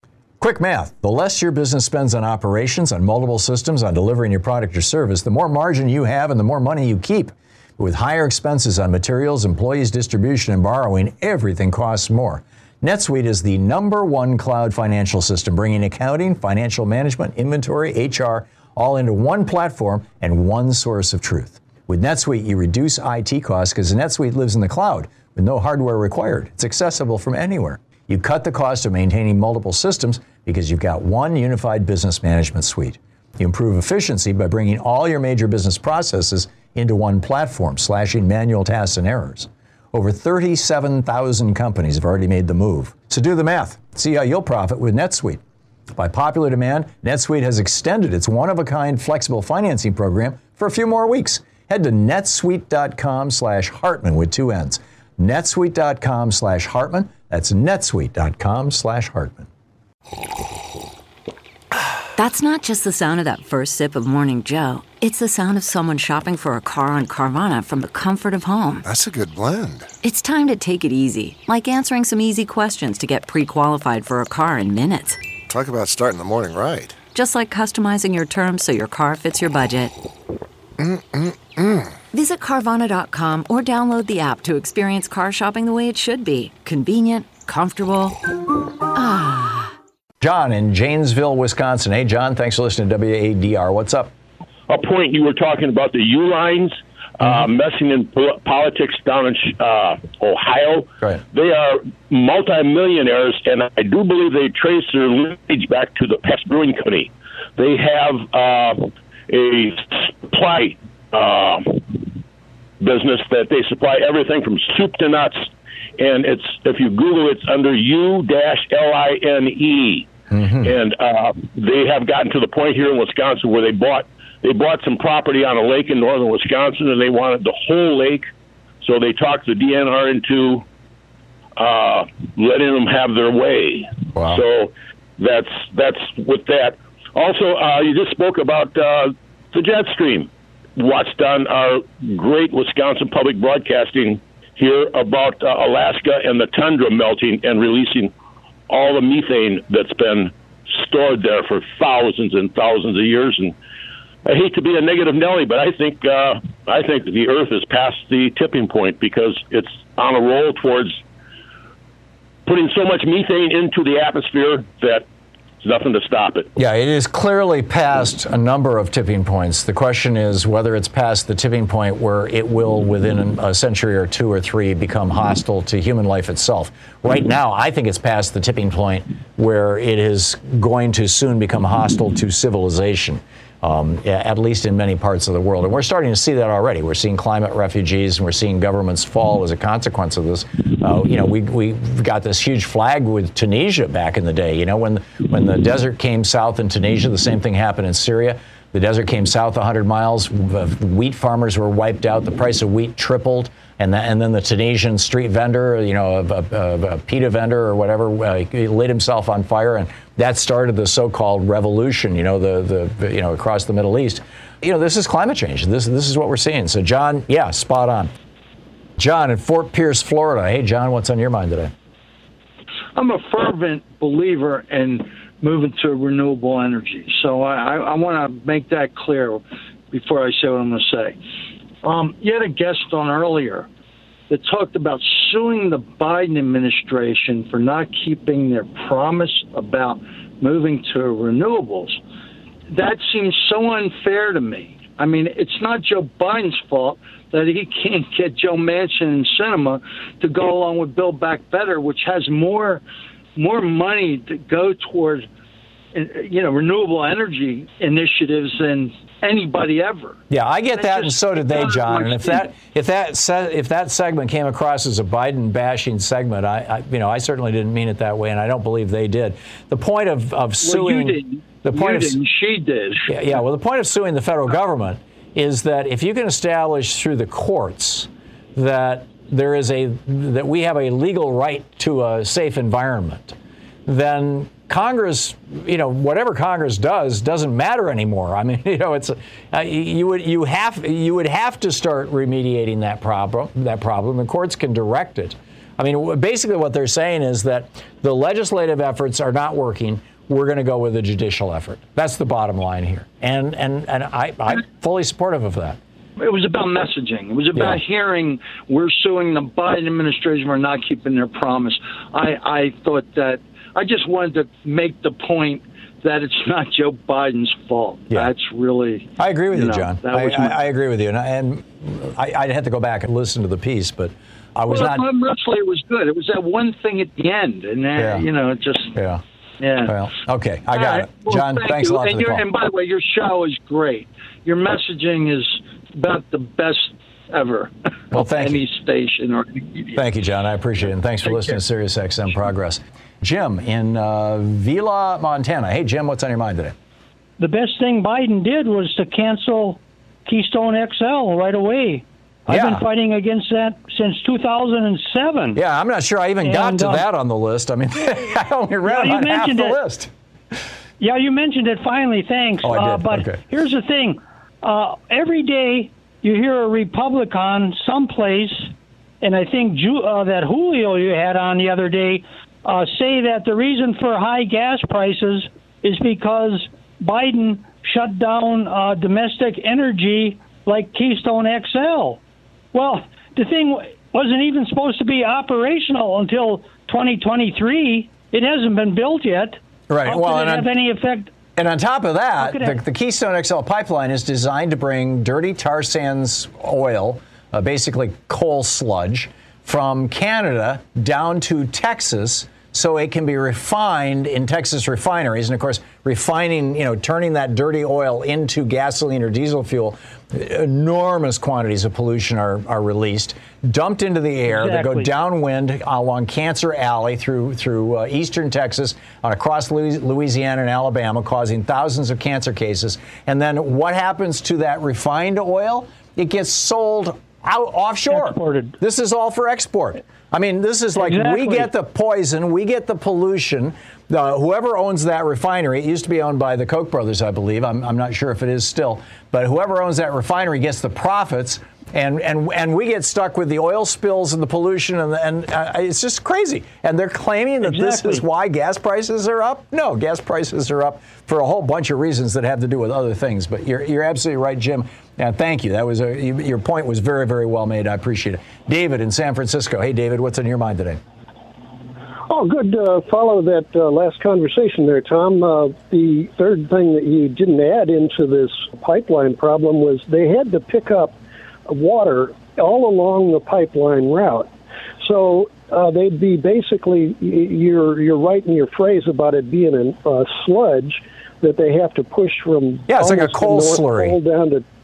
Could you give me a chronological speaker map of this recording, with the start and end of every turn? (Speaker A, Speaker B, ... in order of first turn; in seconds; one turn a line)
Speaker A: 0.4-45.4
Speaker A: 45.9-59.5
Speaker B: 62.1-68.9
Speaker C: 68.8-69.9
Speaker B: 70.0-75.2
Speaker C: 75.5-77.0
Speaker B: 77.1-79.9
Speaker C: 80.8-82.0
Speaker B: 82.1-88.2
Speaker B: 88.9-89.7
Speaker A: 90.2-94.1
Speaker D: 94.7-112.2
Speaker D: 112.8-120.1
Speaker A: 120.3-120.7
Speaker D: 120.6-128.3
Speaker D: 128.8-130.6
Speaker D: 131.6-148.1
Speaker A: 134.1-134.4
Speaker D: 148.7-153.5
Speaker D: 154.2-161.0
Speaker D: 162.4-165.1
Speaker D: 165.6-166.5
Speaker A: 166.6-218.1
Speaker A: 219.0-221.7
Speaker E: 222.9-231.2
Speaker E: 231.8-233.7
Speaker E: 234.3-242.0
Speaker E: 242.7-252.8
Speaker E: 253.3-255.3
Speaker E: 255.9-260.2
Speaker A: 260.3-272.2
Speaker E: 260.7-262.5
Speaker E: 270.6-273.4
Speaker A: 273.1-305.8
Speaker E: 306.2-320.6
Speaker A: 307.6-307.8
Speaker A: 319.2-325.1
Speaker E: 324.6-329.0
Speaker A: 328.0-328.2
Speaker A: 328.9-329.2
Speaker E: 329.6-330.0
Speaker A: 329.9-332.4
Speaker E: 330.7-340.0
Speaker A: 338.1-338.6
Speaker A: 339.9-346.7
Speaker E: 341.2-341.6
Speaker F: 347.4-355.6
Speaker A: 352.5-352.8
Speaker A: 355.5-360.1
Speaker F: 356.4-357.0
Speaker F: 358.8-359.8
Speaker F: 361.0-382.2
Speaker A: 362.6-363.4
Speaker F: 382.7-391.3
Speaker A: 389.9-390.7
Speaker A: 391.6-461.0
Speaker F: 392.4-392.8
Speaker F: 414.6-415.0
Speaker E: 414.6-415.0
Speaker E: 428.1-428.7
Speaker F: 430.9-431.7
Speaker E: 447.6-448.2
Speaker G: 462.3-471.1
Speaker G: 471.7-484.6
Speaker A: 482.9-484.2